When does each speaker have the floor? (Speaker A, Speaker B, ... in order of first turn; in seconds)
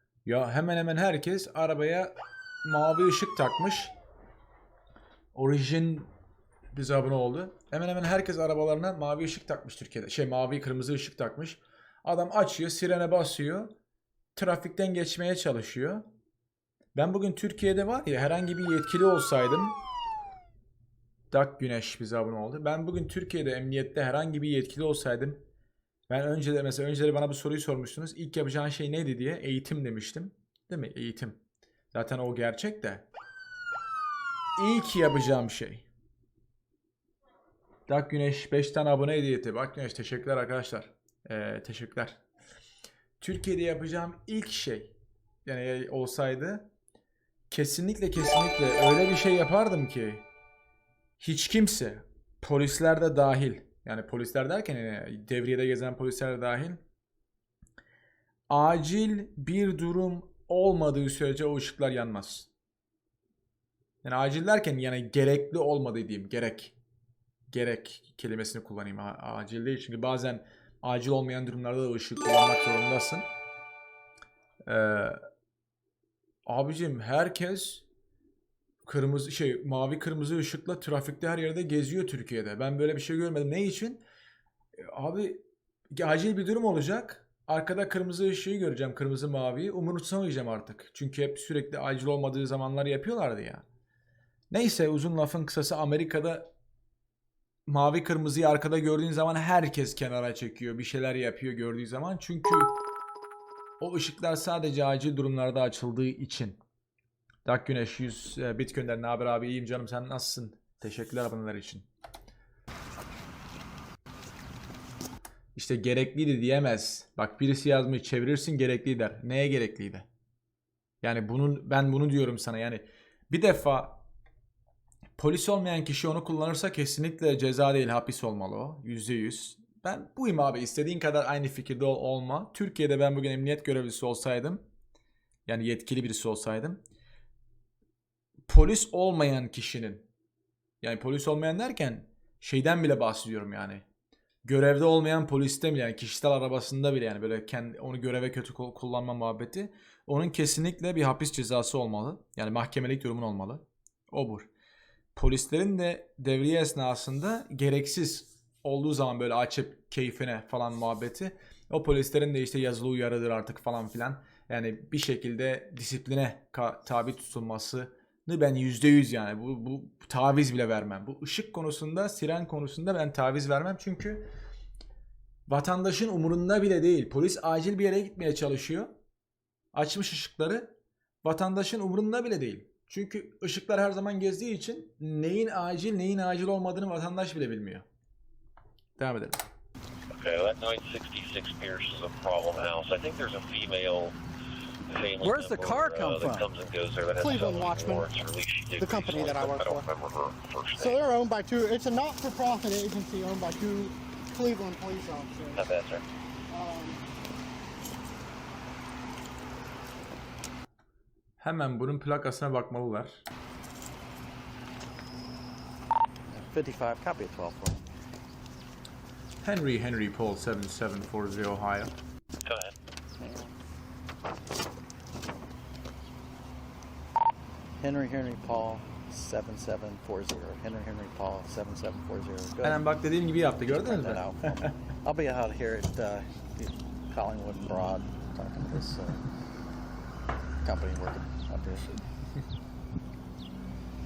Speaker A: 0.2-3.9, 5.3-6.1, 6.7-13.7, 14.3-16.1, 16.9-19.8, 21.3-25.4, 26.1-31.4, 31.9-33.0, 34.6-35.9, 37.9-42.2, 43.2-44.9, 45.5-46.7, 47.5-50.2, 51.2-56.8, 58.5-62.5, 64.0-66.7, 67.5-73.3, 74.6-75.2, 76.5-77.8, 78.8-84.0, 84.8-93.6, 94.5-96.5, 97.7-102.8, 103.8-106.6, 107.4-111.8, 115.5-120.0, 121.0-124.0, 125.2-134.6, 135.5-136.8, 138.5-140.1, 140.8-143.8, 144.4-154.5, 155.1-174.3, 175.5-178.9, 179.7-187.8, 189.0-189.4, 211.4-213.2, 219.4-221.9, 232.6-234.8
Speaker B: 190.1-194.2, 194.9-201.0, 205.5-206.0, 222.4-222.7
Speaker C: 195.2-196.5, 216.3-217.8, 227.8-232.8, 233.7-239.2, 240.6-242.0
Speaker D: 197.2-198.1, 198.8-199.8, 200.8-205.6, 206.5-207.0, 223.2-223.5